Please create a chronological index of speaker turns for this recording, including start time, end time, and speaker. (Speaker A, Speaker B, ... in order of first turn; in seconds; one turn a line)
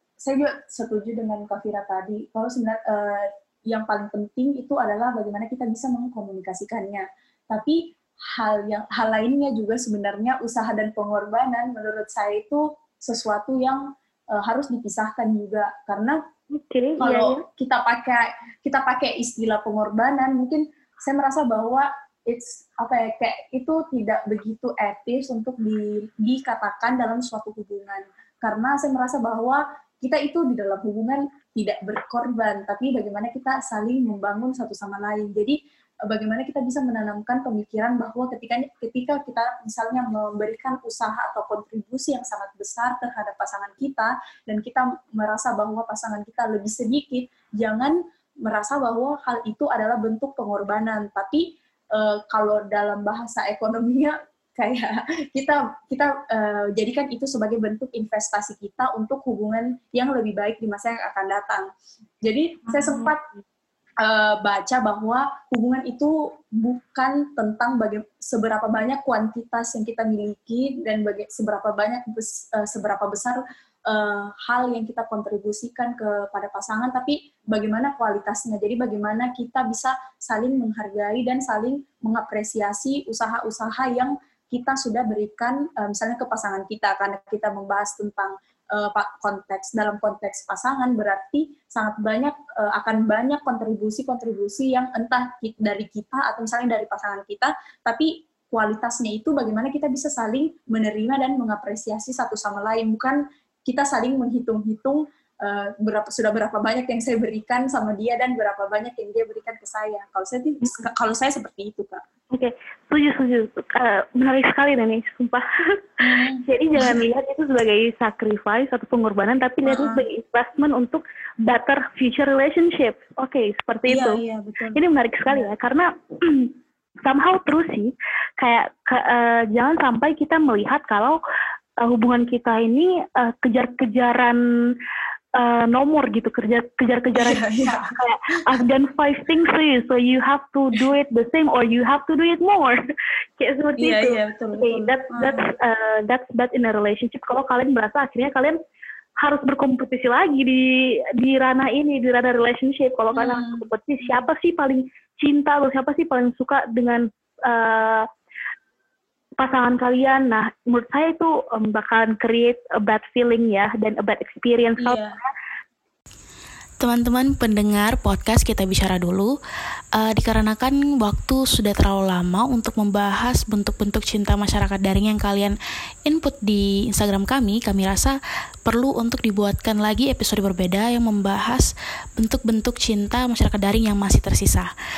Speaker A: 0.2-16.2
Speaker B: 16.5-17.4
Speaker A: 17.0-61.7
Speaker A: 62.2-63.2
Speaker B: 62.7-63.1
Speaker A: 64.0-112.0
Speaker B: 112.3-124.2
Speaker A: 116.0-117.0
Speaker A: 119.7-120.0
Speaker A: 123.9-125.5
Speaker B: 124.7-131.2
Speaker B: 131.8-134.8
Speaker B: 135.3-142.8
Speaker A: 137.1-137.9
Speaker B: 143.4-148.6
Speaker A: 143.8-145.5
Speaker B: 149.2-158.1
Speaker A: 153.1-154.2
Speaker B: 159.4-165.3
Speaker A: 164.8-165.2
Speaker C: 166.8-169.3
Speaker C: 169.9-184.7